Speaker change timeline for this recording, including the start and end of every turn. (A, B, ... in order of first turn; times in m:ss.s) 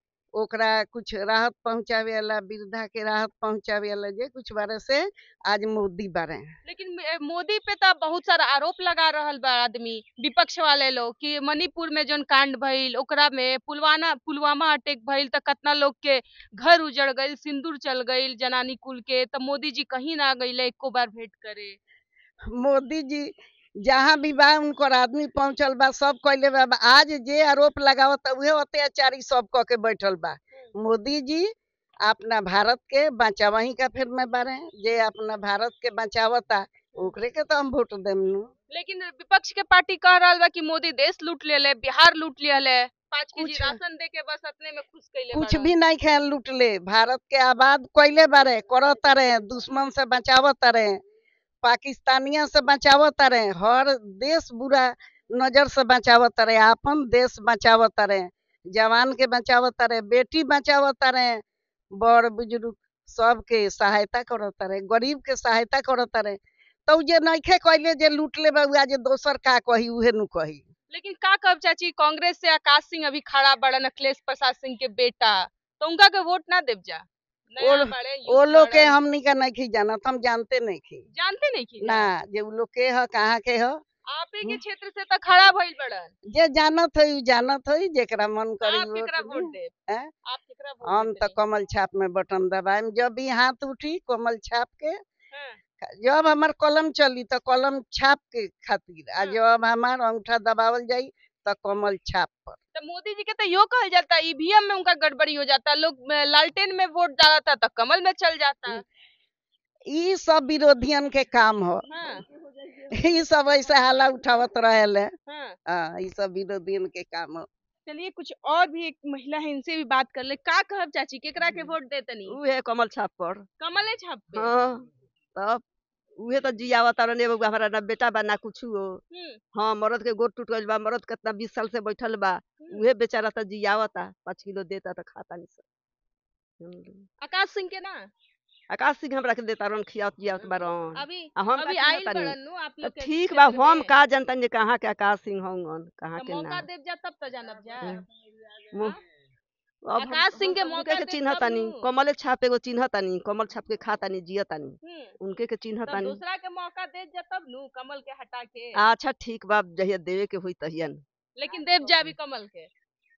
0:00.4-0:06.6 A
0:06.6-0:21.8 B
0:22.5-0:23.3 A
0:23.8-0:31.5 A
0:32.0-0:38.5 A
0:38.7-0:45.7 B
0:43.4-0:43.8 A
0:45.3-0:51.0 A
0:51.6-1:01.4 A
1:02.0-1:10.7 A
1:10.9-1:19.0 B
1:17.6-1:21.0 A
1:21.1-1:22.1 B
1:21.8-1:23.8 A
1:24.1-1:26.1 B
1:26.3-1:30.1 A
1:28.6-1:29.7 B
1:30.2-1:31.4 B
1:30.8-1:35.0 A
1:35.3-1:35.6 B
1:35.8-1:42.6 A
1:42.8-1:48.8 B
1:49.9-1:51.9 A
1:51.9-1:52.3 B
1:52.9-1:55.1 A
1:55.3-1:55.6 B
1:55.7-1:57.5 A
1:57.9-2:02.4 B
2:02.3-2:03.5 C
2:03.6-2:04.5 B
2:04.3-2:05.6 C
2:06.2-2:09.0 C
2:09.1-2:09.4 B
2:09.5-2:15.6 C
2:16.6-2:17.1 C
2:17.2-2:18.1 B
2:18.7-2:26.7 C
2:20.9-2:23.9 B
2:26.2-2:28.0 B
2:28.7-2:29.0 C
2:29.8-2:36.2 C
2:30.0-2:31.9 B
2:34.8-2:35.2 B
2:35.9-2:38.8 B
2:38.8-2:41.0 C
2:41.4-2:42.7 B